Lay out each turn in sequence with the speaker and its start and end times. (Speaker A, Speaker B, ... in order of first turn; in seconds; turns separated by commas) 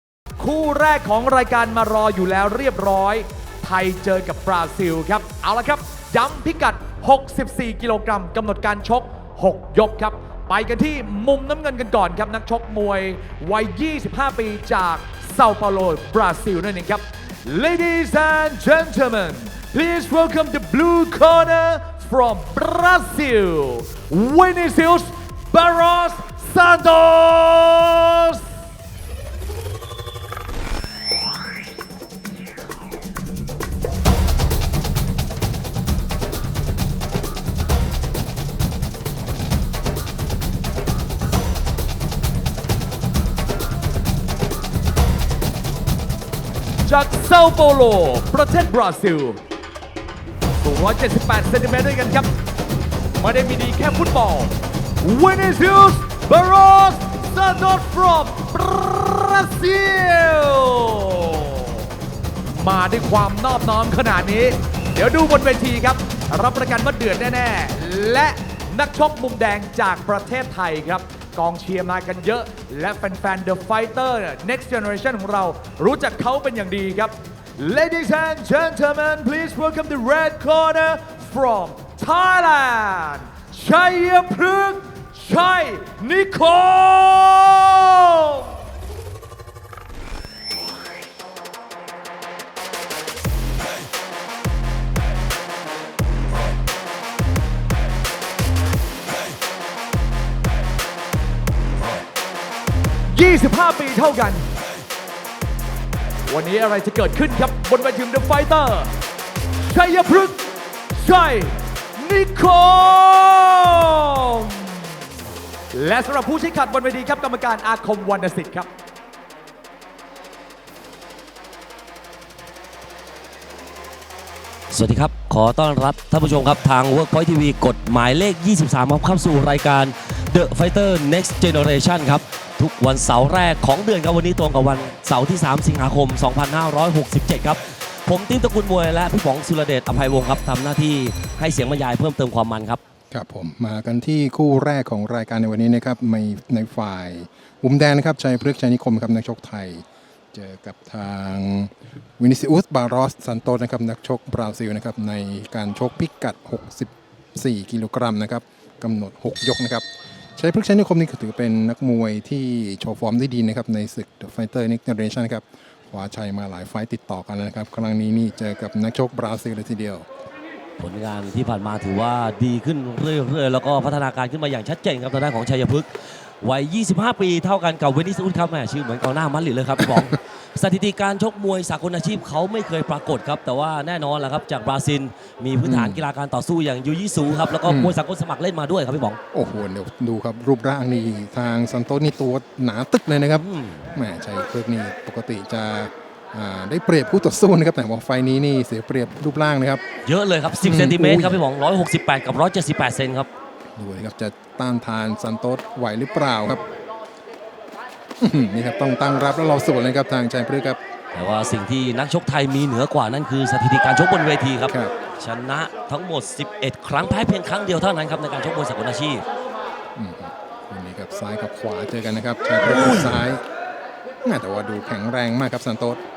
Speaker A: 0.4-28.5, Speaker A: 46.9-49.4, Speaker A: 50.6-52.3, Speaker A: 53.2-61.9, Speaker A: 62.5-88.6, Speaker A: 103.1-104.5, Speaker A: 106.3-108.9, Speaker A: 109.6-114.9, Speaker A: 115.7-118.7, Speaker B: 124.7-142.8, Speaker C: 143.1-159.8, Speaker C: 160.4-170.1, Speaker B: 170.8-189.2, Speaker C: 185.6-186.0, Speaker C: 187.7-188.0, Speaker C: 189.3-199.8, Speaker B: 193.4-193.9, Speaker B: 200.1-203.3, Speaker C: 200.6-201.4, Speaker C: 203.8-206.6, Speaker C: 208.2-210.8, Speaker B: 211.1-219.2, Speaker C: 220.0-223.4, Speaker B: 222.6-223.3, Speaker C: 224.2-226.0